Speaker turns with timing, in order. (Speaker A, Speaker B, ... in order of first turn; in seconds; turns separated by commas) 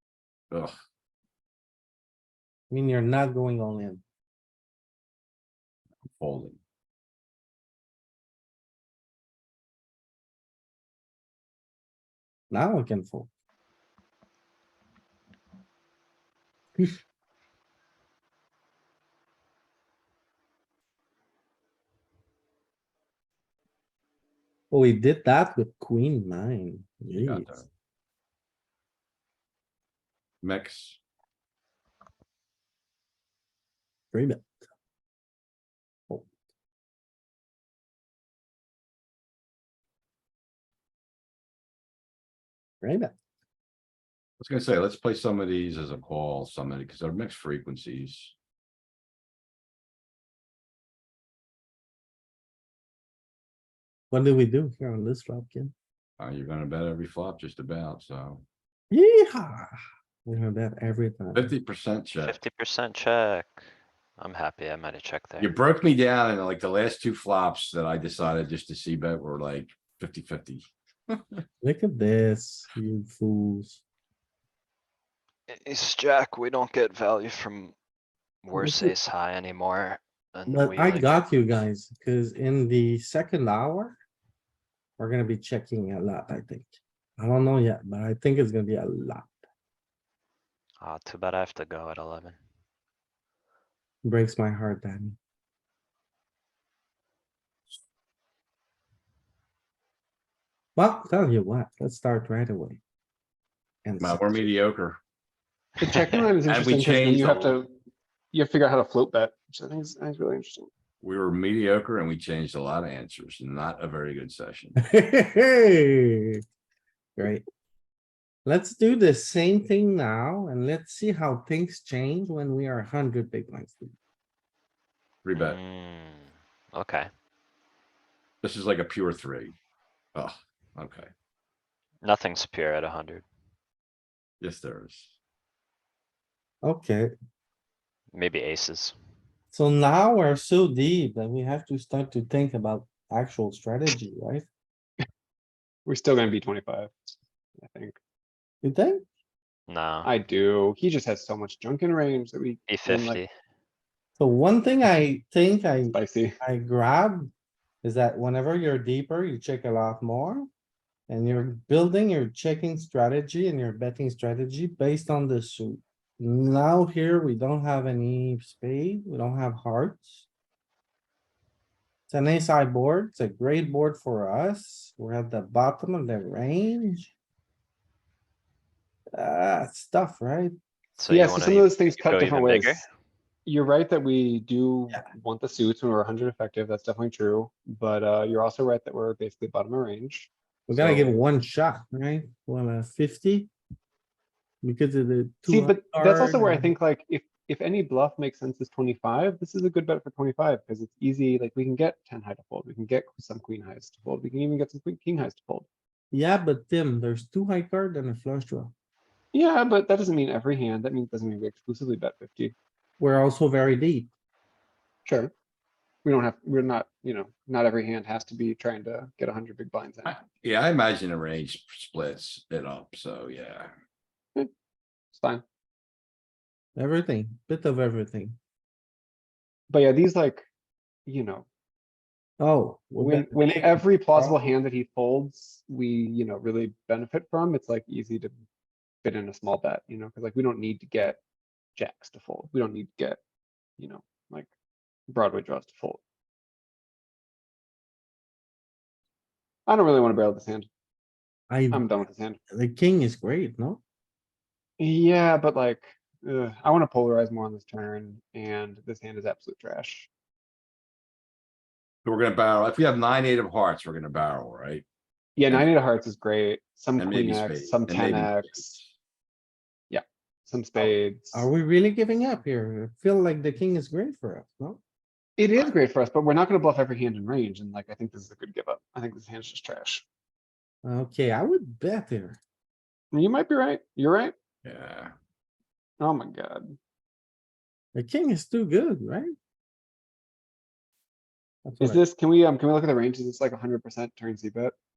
Speaker A: 2.7-4.0, Speaker B: 6.1-6.6, Speaker A: 12.5-13.3, Speaker A: 24.7-27.6, Speaker B: 27.2-27.7, Speaker B: 30.4-31.0, Speaker A: 34.1-34.5, Speaker A: 42.8-43.1, Speaker B: 44.4-48.3, Speaker A: 54.1-55.7, Speaker B: 56.2-58.4, Speaker A: 58.9-61.5, Speaker B: 61.3-62.4, Speaker C: 62.2-63.6, Speaker C: 64.2-65.5, Speaker B: 65.4-71.4, Speaker A: 71.6-73.8, Speaker C: 75.5-77.7, Speaker C: 78.4-81.1, Speaker A: 78.5-78.9, Speaker A: 80.5-84.0, Speaker A: 85.0-89.4, Speaker C: 90.8-92.4, Speaker A: 94.0-95.2, Speaker A: 100.8-102.8, Speaker A: 103.8-104.4, Speaker B: 104.0-105.0, Speaker D: 105.8-107.7, Speaker B: 106.4-107.5, Speaker D: 108.3-110.7, Speaker B: 111.0-114.8, Speaker A: 114.8-116.4, Speaker A: 117.2-117.4, Speaker A: 118.4-123.9, Speaker B: 125.2-125.6, Speaker C: 125.3-127.1, Speaker B: 128.4-129.5, Speaker B: 130.1-131.1, Speaker C: 132.0-133.2, Speaker B: 134.4-135.1, Speaker A: 136.6-137.1, Speaker C: 138.1-138.9, Speaker A: 139.5-144.4, Speaker D: 145.8-146.9, Speaker D: 147.6-148.0, Speaker A: 148.6-149.0, Speaker C: 149.7-150.1, Speaker D: 150.0-153.2, Speaker C: 152.7-153.3, Speaker A: 154.2-157.3, Speaker D: 155.9-156.4, Speaker A: 157.8-160.5, Speaker A: 161.1-170.2, Speaker A: 172.1-177.1, Speaker A: 179.1-180.5, Speaker C: 181.0-182.8, Speaker D: 181.1-182.8, Speaker D: 183.4-191.2, Speaker A: 190.7-193.5, Speaker A: 194.6-196.7, Speaker D: 195.5-205.7, Speaker A: 206.1-208.7, Speaker D: 209.3-212.5, Speaker A: 213.0-214.1, Speaker D: 215.1-215.3, Speaker D: 216.0-220.2, Speaker B: 220.0-223.7, Speaker D: 225.1-225.4, Speaker A: 226.8-228.4, Speaker D: 229.7-230.4, Speaker D: 231.1-231.5, Speaker A: 232.4-234.3, Speaker D: 233.0-238.3, Speaker D: 239.0-241.2, Speaker D: 241.8-243.2, Speaker D: 243.8-244.5, Speaker D: 245.1-246.0, Speaker D: 249.7-250.7, Speaker A: 251.5-251.8, Speaker D: 251.7-252.4, Speaker A: 252.5-253.8, Speaker D: 254.8-260.1, Speaker B: 262.0-264.8, Speaker D: 265.4-268.8, Speaker B: 267.0-268.9, Speaker D: 269.9-271.4, Speaker A: 270.8-274.8, Speaker D: 275.4-280.0, Speaker A: 280.8-282.4, Speaker D: 283.1-284.3, Speaker B: 284.6-285.1, Speaker D: 286.0-286.8, Speaker A: 287.9-289.3, Speaker A: 291.6-292.0, Speaker D: 291.8-294.7